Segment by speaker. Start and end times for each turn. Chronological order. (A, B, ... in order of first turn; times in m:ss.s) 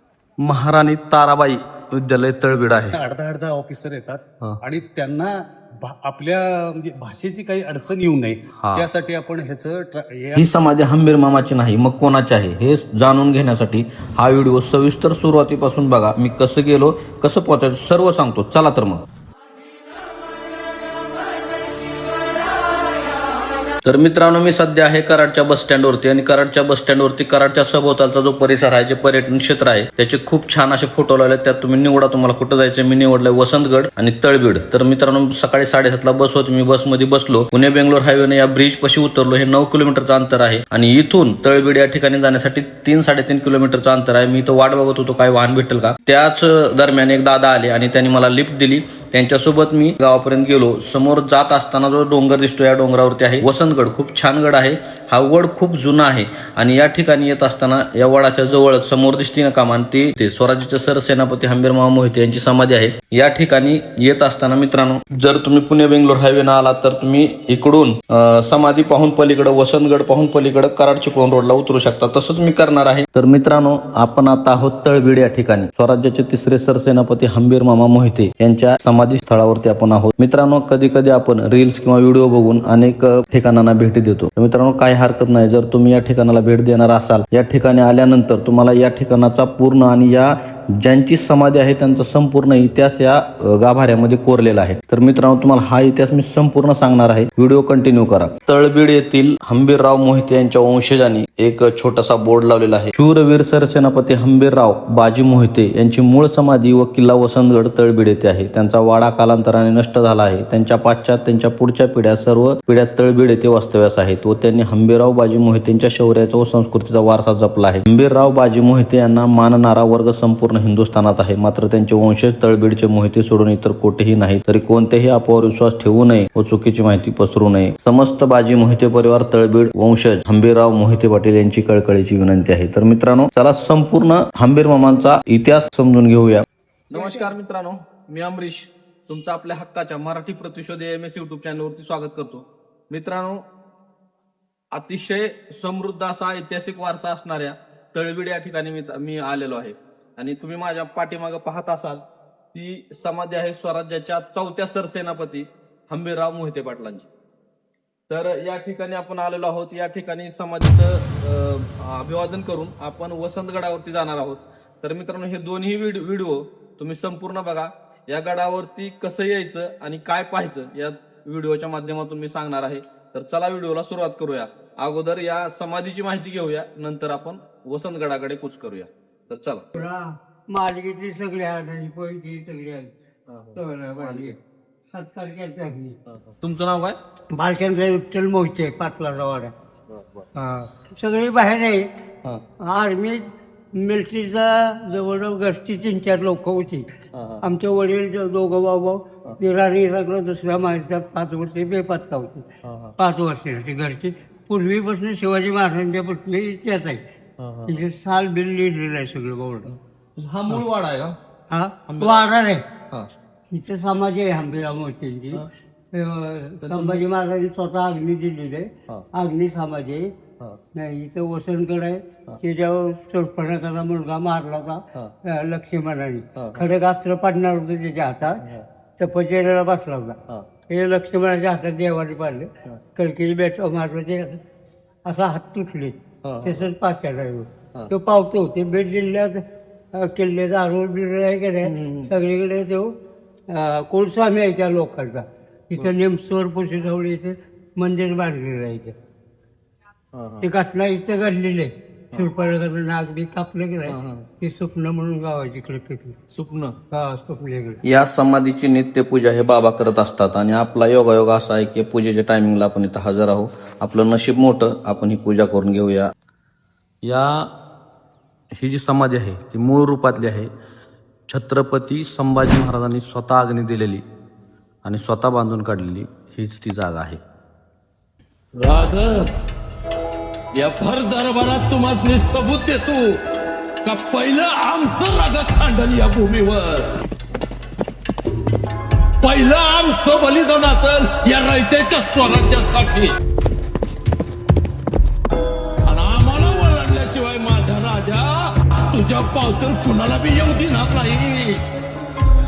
0:00.4-0:03.0 A
0:02.9-0:10.6 B
0:08.6-0:08.9 A
0:10.3-0:19.0 A
0:23.8-2:23.4 A
2:16.9-2:17.3 C
2:24.7-2:32.0 A
2:32.5-2:37.0 A
2:38.1-2:59.6 A
2:59.7-3:02.9 D
3:03.3-3:04.3 A
3:03.5-3:04.4 D
3:04.9-3:06.0 D
3:06.1-3:07.0 A
3:07.3-3:09.5 D
3:09.9-3:10.2 A
3:10.3-3:11.9 D
3:12.6-3:16.9 D
3:17.1-3:17.4 A
3:17.4-3:27.0 D
3:22.6-3:22.9 A
3:27.4-3:27.8 A
3:27.6-3:29.7 D
3:29.7-3:31.2 A
3:31.5-3:32.6 D
3:31.9-3:32.3 A
3:33.5-3:40.1 D
3:36.6-3:37.0 A
3:40.8-3:48.4 D
3:46.4-3:46.6 A
3:49.0-3:50.2 D
3:50.7-3:54.4 D
3:55.0-3:59.4 D
3:56.2-3:56.7 A
3:59.9-4:03.0 D
4:01.6-4:02.1 A
4:03.5-4:09.0 D
4:10.1-4:10.5 A
4:10.4-4:16.2 D
4:13.9-4:14.2 A
4:16.3-4:16.8 A
4:16.9-4:17.8 D
4:17.8-4:26.1 A
4:27.0-4:27.5 A
4:28.5-4:30.5 A
4:31.3-4:34.0 A
4:34.8-4:37.2 A
4:38.6-4:39.3 C
4:40.6-4:43.1 C
4:42.2-4:42.9 A
4:43.8-4:46.8 C
4:45.2-4:46.8 A
4:49.2-4:53.1 C
4:50.5-4:52.6 A
4:55.8-5:01.6 C